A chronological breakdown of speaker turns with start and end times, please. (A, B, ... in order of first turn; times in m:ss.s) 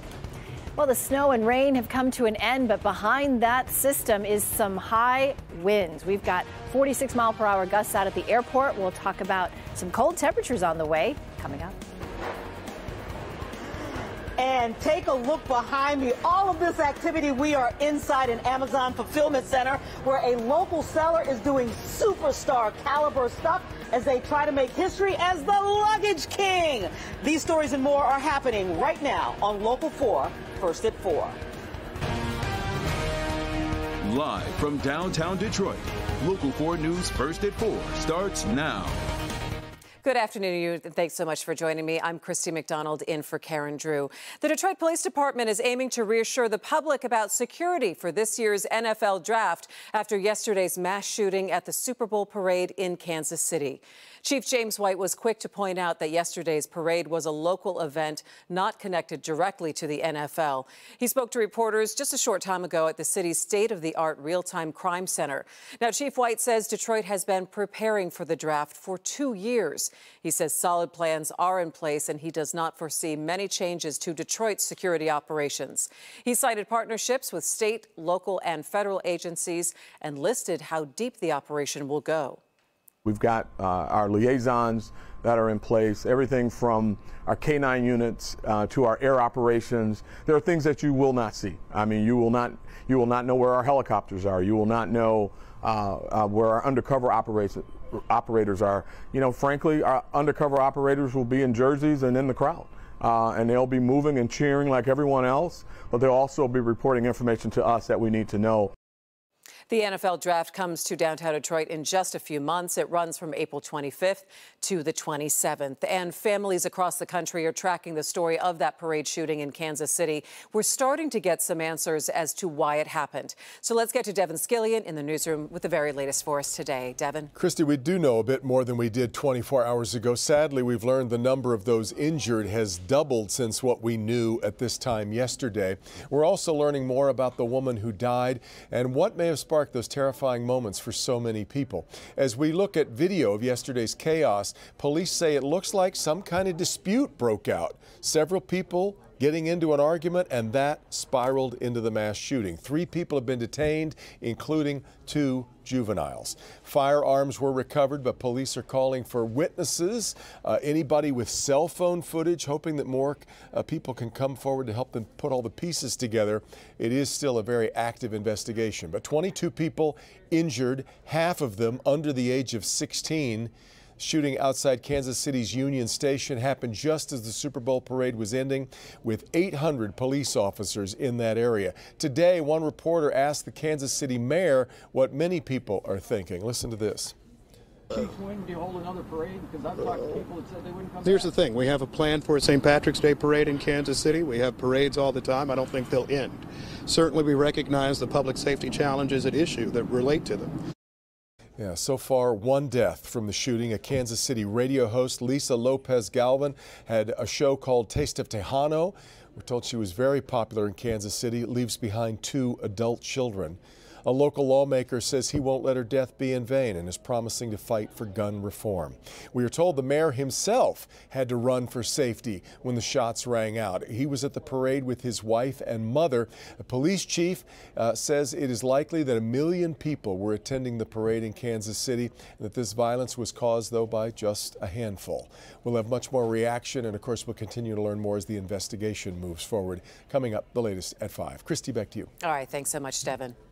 0:00.8-0:11.8 A
0:14.4-0:31.4 B
0:34.0-0:39.0 C
0:40.0-1:22.4 D
1:23.0-1:48.7 E
1:49.7-2:07.3 D
2:07.4-3:07.2 F
3:08.0-3:11.4 G
3:11.0-3:20.5 H
3:21.6-4:02.1 F
4:02.2-4:03.4 D